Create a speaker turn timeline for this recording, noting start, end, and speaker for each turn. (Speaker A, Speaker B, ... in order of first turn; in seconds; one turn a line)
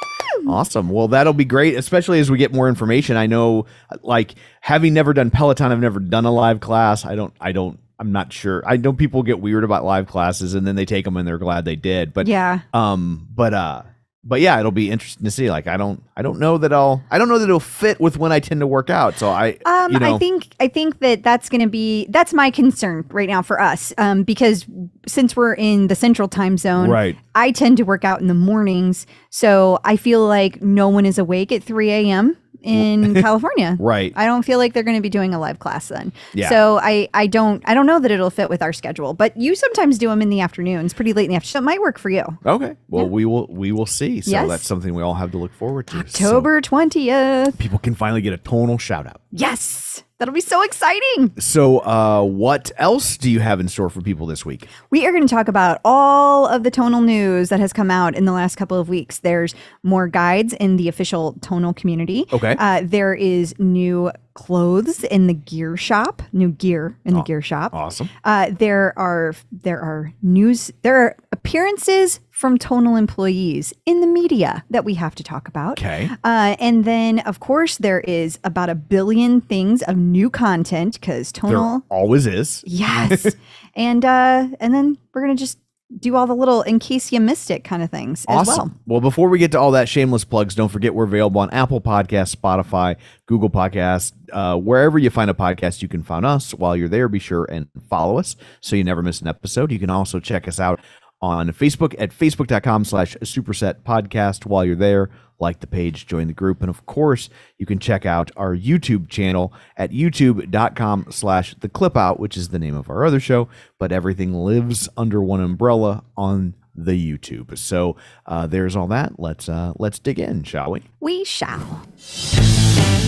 Speaker A: 0.5-20.2
Speaker B: 12.2-12.6
Speaker B: 19.6-42.4
Speaker A: 26.8-27.2
Speaker A: 32.8-33.2
Speaker A: 33.8-34.1
Speaker A: 36.3-36.6
Speaker A: 42.5-46.5
Speaker B: 44.3-44.6
Speaker B: 45.9-47.6
Speaker A: 47.6-49.2
Speaker B: 49.3-51.4
Speaker A: 51.4-54.7
Speaker B: 54.9-81.8
Speaker A: 62.3-62.6
Speaker A: 67.1-68.1
Speaker A: 75.8-76.1
Speaker A: 81.5-83.3
Speaker B: 82.7-88.7
Speaker A: 88.3-120.8
Speaker B: 121.0-121.8